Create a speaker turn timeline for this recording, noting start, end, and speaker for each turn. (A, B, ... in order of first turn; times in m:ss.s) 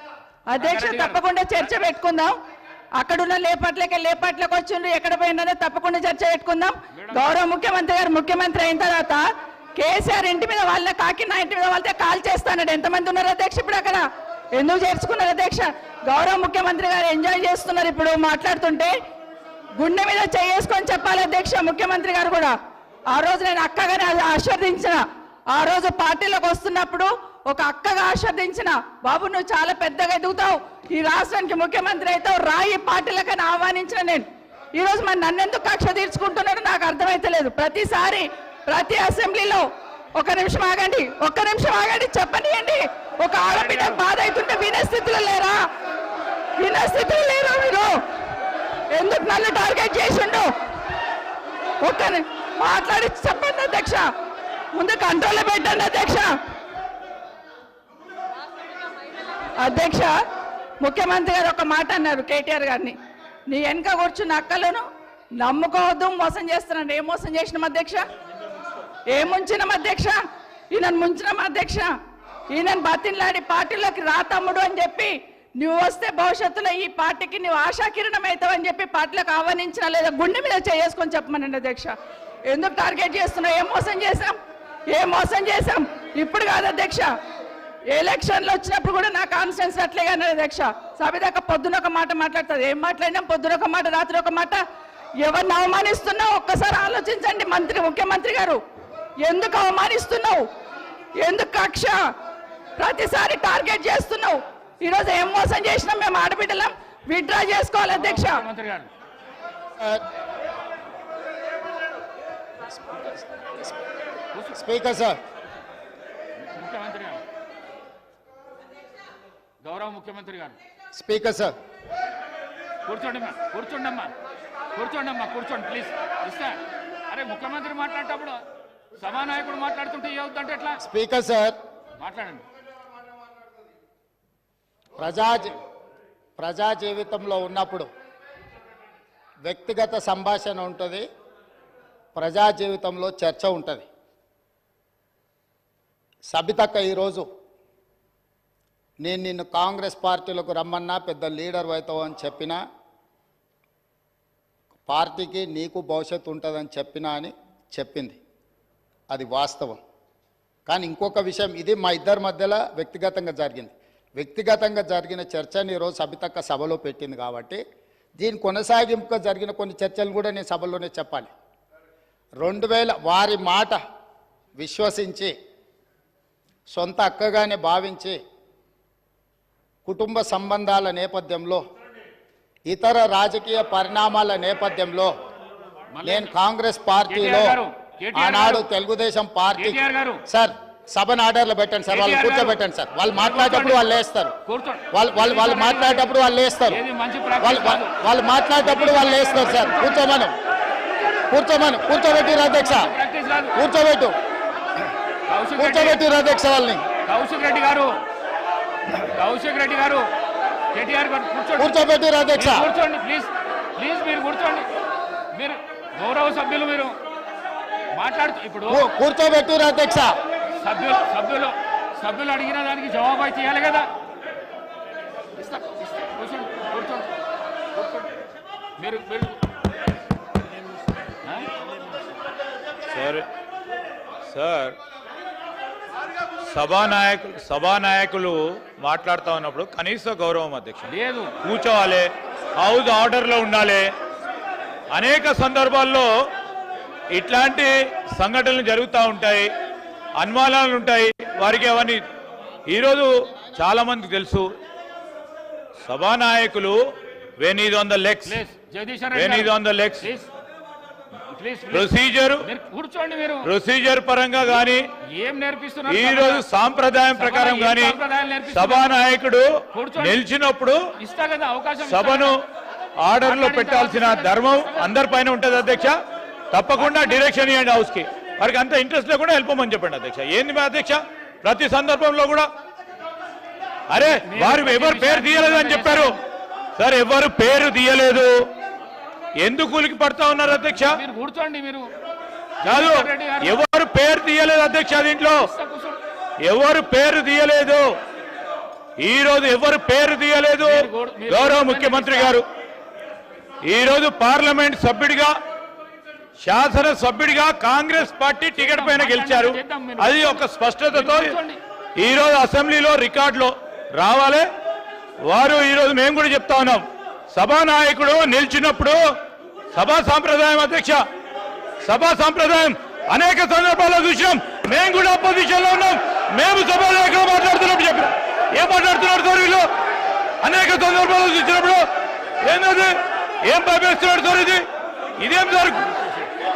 0:00.5-0:02.3 A
0:00.6-0:01.2 B
0:03.0-0:09.2 A
0:06.9-0:07.3 B
0:09.8-0:14.0 A
0:14.6-0:18.9 A
0:19.8-0:22.5 A
0:23.1-0:25.0 A
0:25.5-0:39.6 A
0:40.2-0:45.6 A
0:43.5-0:44.0 B
0:46.6-0:47.9 A
0:48.9-0:50.5 A
0:51.8-0:54.0 A
0:54.7-0:56.3 A
0:59.6-1:00.1 A
1:00.8-1:03.0 A
1:03.5-1:04.8 A
1:05.4-1:08.0 A
1:09.1-1:10.1 A
1:10.7-1:11.9 A
1:12.5-1:21.9 A
1:22.5-1:24.4 A
1:24.9-1:27.1 A
1:27.9-1:34.6 A
1:35.2-1:38.6 A
1:39.2-1:40.4 A
1:41.2-1:42.0 A
1:42.8-1:48.4 A
1:47.9-1:48.9 B
1:52.9-1:53.5 C
1:54.5-1:55.2 C
1:56.4-1:57.2 B
1:59.6-2:00.6 B
2:00.9-2:01.5 C
2:02.8-2:04.1 B
2:04.7-2:06.6 B
2:07.1-2:08.4 B
2:09.0-2:10.8 B
2:10.8-2:11.6 C
2:12.0-2:12.4 B
2:15.0-2:15.6 C
2:16.4-2:17.9 C
2:19.4-2:21.0 C
2:22.1-2:23.9 C
2:26.3-2:27.2 C
2:29.0-2:32.6 C
2:34.9-2:38.2 C
2:39.1-2:39.8 C
2:40.7-2:47.6 C
2:48.2-2:51.3 C
2:52.4-2:53.8 C
2:54.6-2:55.3 C
2:56.7-2:58.2 C
2:59.8-3:01.6 C
3:02.7-3:05.1 C
3:05.9-3:06.4 B
3:06.0-3:07.6 C
3:07.1-3:08.6 B
3:08.1-3:14.3 C
3:09.6-3:10.2 B
3:11.9-3:12.6 B
3:13.1-3:13.9 B
3:14.5-3:17.9 B
3:14.9-3:16.8 C
3:17.4-3:20.3 C
3:18.6-3:20.2 B
3:21.3-3:22.9 C
3:22.3-3:23.6 B
3:23.6-3:24.1 C
3:25.3-3:26.0 B
3:25.6-3:26.8 C
3:27.0-3:27.9 B
3:29.0-3:30.1 B
3:30.7-3:31.8 B
3:31.6-3:32.7 C
3:32.4-3:34.7 B
3:35.3-3:36.9 B
3:37.9-3:38.8 B
3:38.7-3:40.1 C
3:40.6-3:43.9 B
3:45.4-3:47.1 B
3:47.7-3:48.1 B
3:48.8-3:49.4 B
3:52.9-3:53.3 D
3:54.3-3:54.8 D
3:56.5-4:03.9 D
4:00.8-4:01.3 B
4:04.9-4:06.1 D
4:07.1-4:09.5 D
4:10.2-4:12.0 D
4:12.6-4:14.5 D
4:15.8-4:16.8 D
4:17.4-4:18.4 D
4:18.2-4:20.3 B
4:19.1-4:20.1 D
4:21.3-4:23.5 B
4:21.7-4:22.4 D
4:23.4-4:24.8 D
4:25.1-4:26.5 B
4:25.9-4:28.0 D
4:27.1-4:29.0 B
4:28.5-4:30.8 D
4:29.7-4:30.2 B
4:31.0-4:32.4 B
4:31.8-4:32.4 D
4:33.0-4:36.0 D
4:33.2-4:35.0 B
4:36.5-4:42.5 D
4:36.8-4:37.3 B
4:43.9-4:46.2 D
4:44.2-4:46.2 B
4:46.8-4:48.3 D
4:49.4-4:50.9 D
4:50.8-4:51.9 B
4:52.6-4:53.6 B
4:52.6-4:55.4 D
4:55.4-4:56.0 B
4:56.4-4:57.9 D
4:59.0-5:02.4 D
5:00.6-5:02.4 B
5:03.6-5:05.4 D
5:06.4-5:11.3 D
5:08.6-5:11.6 B
5:12.0-5:14.5 D
5:15.2-5:19.0 D
5:19.7-5:21.0 D
5:21.8-5:29.7 D
5:30.4-5:31.8 D
5:32.4-5:34.6 D
5:35.2-5:35.9 D
5:35.8-5:36.3 B